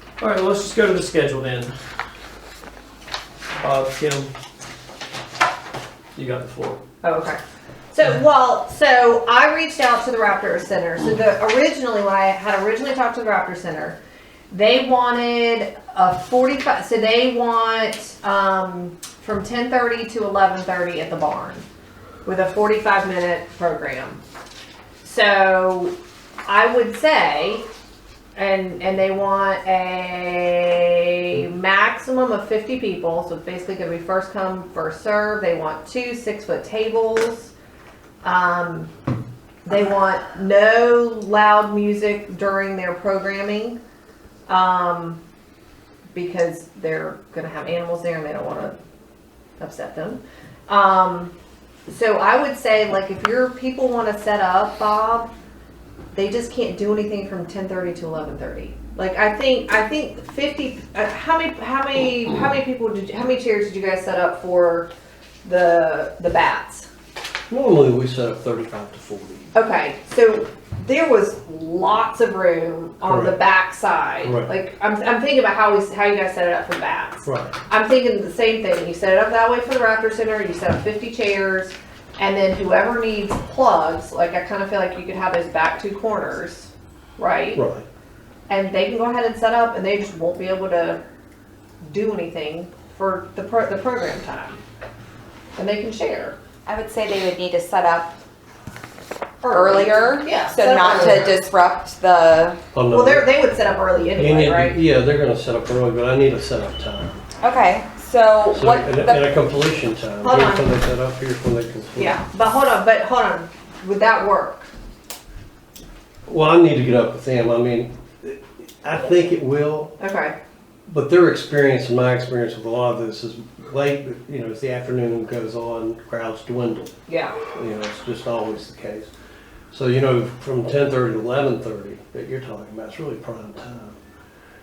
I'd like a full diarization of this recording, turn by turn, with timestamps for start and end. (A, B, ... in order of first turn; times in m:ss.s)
0:00.2-0:01.7 A
0:03.6-0:04.3 A
0:06.2-0:06.8 A
0:07.0-0:07.4 B
0:07.9-0:14.0 B
0:14.5-0:21.6 B
0:22.2-0:24.2 B
0:25.0-0:27.6 B
0:28.4-0:37.5 B
0:38.2-0:38.9 B
0:39.6-0:43.8 B
0:44.5-0:45.2 B
0:46.1-0:48.8 B
0:49.6-0:51.3 B
0:51.9-0:55.3 B
0:56.1-1:04.9 B
1:05.4-1:06.9 B
1:07.5-1:09.5 C
1:09.5-1:27.6 B
1:13.0-1:13.4 C
1:14.2-1:14.5 C
1:17.2-1:17.6 C
1:27.5-1:27.8 C
1:28.5-1:31.0 B
1:31.8-1:34.6 B
1:35.6-1:36.4 B
1:36.6-1:38.2 D
1:39.4-1:41.3 B
1:39.5-1:42.6 D
1:42.7-1:43.3 C
1:42.9-1:44.8 B
1:44.2-1:47.2 C
1:47.4-1:49.2 D
1:48.5-1:52.2 C
1:50.2-1:50.7 B
1:52.0-1:54.7 B
1:56.2-2:00.0 C
2:00.0-2:00.4 B
2:00.9-2:06.9 C
2:07.1-2:07.4 B
2:07.5-2:09.1 C
2:09.7-2:14.0 C